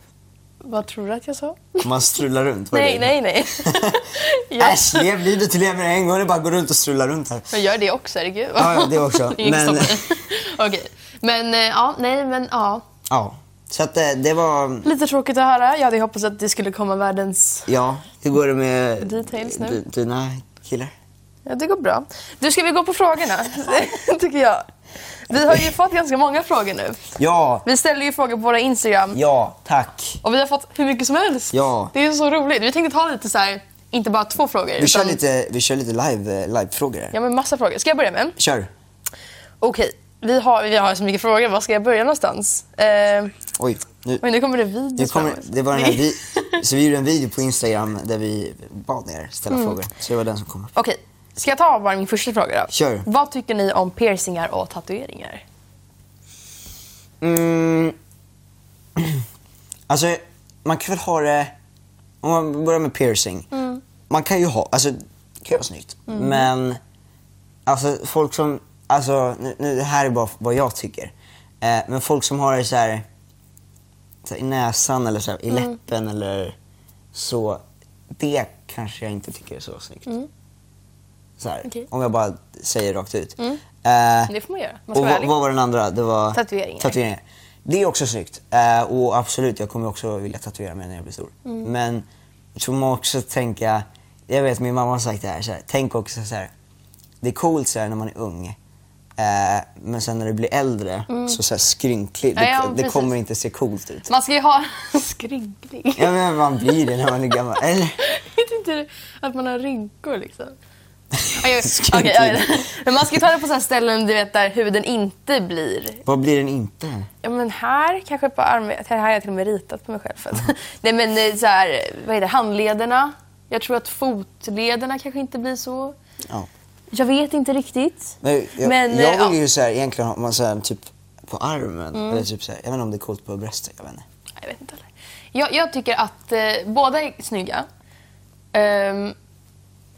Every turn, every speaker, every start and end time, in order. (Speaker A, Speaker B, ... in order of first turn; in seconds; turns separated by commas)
Speaker A: 0.6-1.9, Speaker B: 1.8-7.5, Speaker A: 2.7-5.1, Speaker A: 7.5-12.8, Speaker B: 8.6-10.0, Speaker B: 13.1-14.9, Speaker A: 14.8-17.7, Speaker B: 17.7-20.9, Speaker A: 19.0-19.8, Speaker A: 21.4-24.6, Speaker A: 25.3-27.1, Speaker B: 25.4-25.6, Speaker B: 27.2-27.6, Speaker A: 27.6-29.2, Speaker B: 29.1-30.2, Speaker A: 30.2-35.2, Speaker B: 31.5-31.9, Speaker B: 34.8-37.1, Speaker A: 37.1-38.4, Speaker B: 38.4-38.7, Speaker A: 39.6-43.3, Speaker B: 43.6-44.2, Speaker A: 44.2-46.6, Speaker B: 45.0-50.7, Speaker A: 49.5-49.8, Speaker A: 50.8-55.4, Speaker B: 52.7-53.0, Speaker B: 57.2-57.9, Speaker B: 59.0-59.2, Speaker B: 59.9-61.5, Speaker B: 62.2-63.5, Speaker A: 63.5-63.8, Speaker B: 64.1-66.8, Speaker A: 66.1-66.5, Speaker B: 67.7-73.0, Speaker B: 74.2-76.5, Speaker A: 75.5-75.8, Speaker B: 77.1-77.6, Speaker B: 78.1-80.1, Speaker B: 81.4-84.3, Speaker A: 84.3-85.3, Speaker B: 84.9-96.5, Speaker A: 86.3-87.0, Speaker B: 97.2-98.6, Speaker B: 99.2-104.1, Speaker A: 101.1-101.4, Speaker A: 102.3-103.1, Speaker A: 104.1-106.2, Speaker B: 106.0-108.0, Speaker A: 108.0-110.5, Speaker B: 111.1-112.5, Speaker A: 111.3-116.0, Speaker B: 116.0-117.1, Speaker A: 117.2-125.9, Speaker A: 126.9-129.4, Speaker B: 128.2-134.0, Speaker A: 131.9-132.2, Speaker A: 134.4-137.7, Speaker A: 138.5-139.1